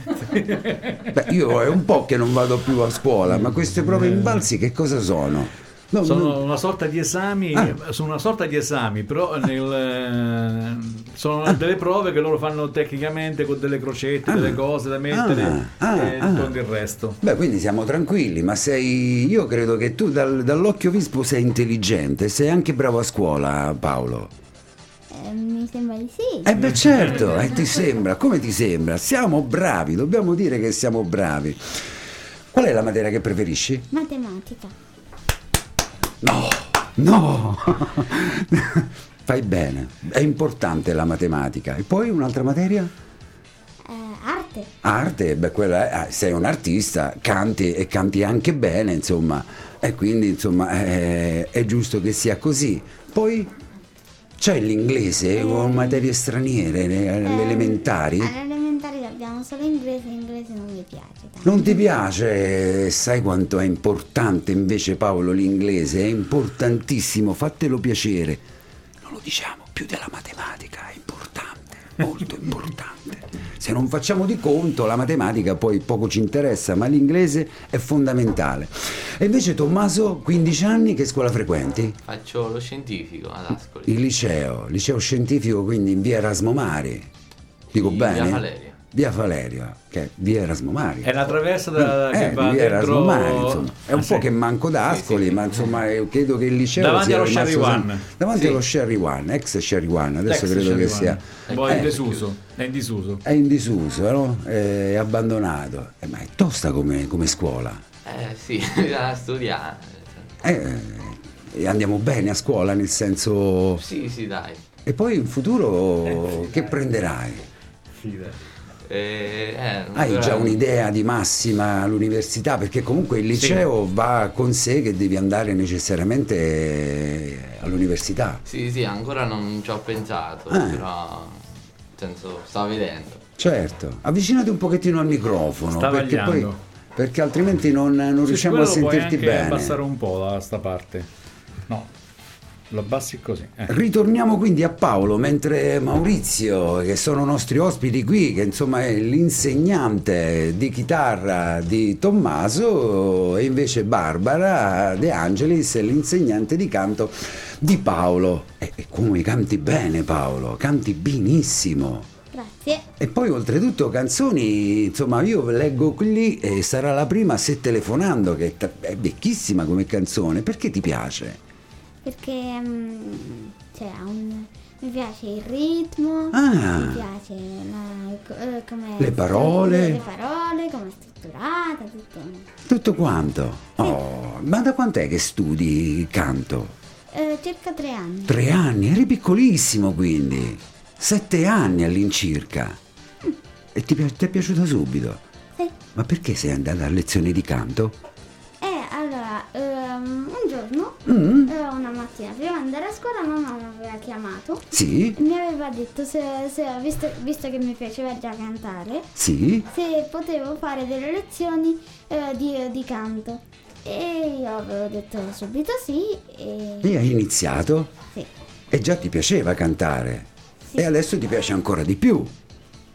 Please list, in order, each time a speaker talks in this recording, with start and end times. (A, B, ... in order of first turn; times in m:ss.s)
0:00.1-0:01.2 A
0:01.1-0:06.4 B
0:03.2-0:04.5 A
0:06.0-0:17.2 A
0:14.2-0:16.6 B
0:17.2-0:24.3 B
0:25.1-0:26.5 C
0:26.4-0:31.9 B
0:26.6-0:27.0 A
0:32.5-0:33.9 B
0:33.9-0:34.7 C
0:36.2-0:42.9 B
0:43.8-0:44.7 C
0:44.8-0:53.5 B
0:54.4-0:58.3 B
0:55.4-0:56.0 C
0:57.2-1:01.8 C
1:01.4-1:08.4 B
1:09.0-1:22.0 B
1:22.0-1:24.0 D
1:23.8-1:27.1 B
1:27.7-1:42.0 B
1:27.7-1:28.8 D
1:31.0-1:34.3 A
1:34.8-1:35.6 D
1:36.8-1:38.0 A
1:38.3-1:38.6 D
1:40.3-1:43.2 A
1:41.5-1:42.3 D
1:43.2-1:47.8 B
1:48.0-1:50.4 D
1:50.4-1:53.8 B
1:53.8-1:54.6 D
1:54.8-1:57.4 B
1:58.8-2:00.6 D
1:59.9-2:08.4 B
2:03.4-2:03.6 A
2:08.4-2:11.4 D
2:10.5-2:10.8 B
2:12.0-2:13.2 D
2:13.4-2:19.8 B
2:15.7-2:16.6 A
2:18.3-2:21.1 A
2:22.7-2:23.7 A
2:23.7-2:42.1 B
2:42.3-2:42.8 C
2:43.0-2:51.4 B
2:52.0-3:02.4 C
2:56.3-2:57.0 B
2:59.0-3:00.0 B
3:02.6-3:06.7 B
3:07.1-3:08.4 C
3:08.3-3:12.8 B
3:13.7-3:15.2 B
3:15.9-3:18.0 B
3:18.6-3:29.1 C
3:21.0-3:21.5 B
3:24.7-3:25.2 B
3:29.1-3:29.7 B
3:29.7-3:37.0 C
3:36.8-3:37.9 B
3:38.7-3:42.3 B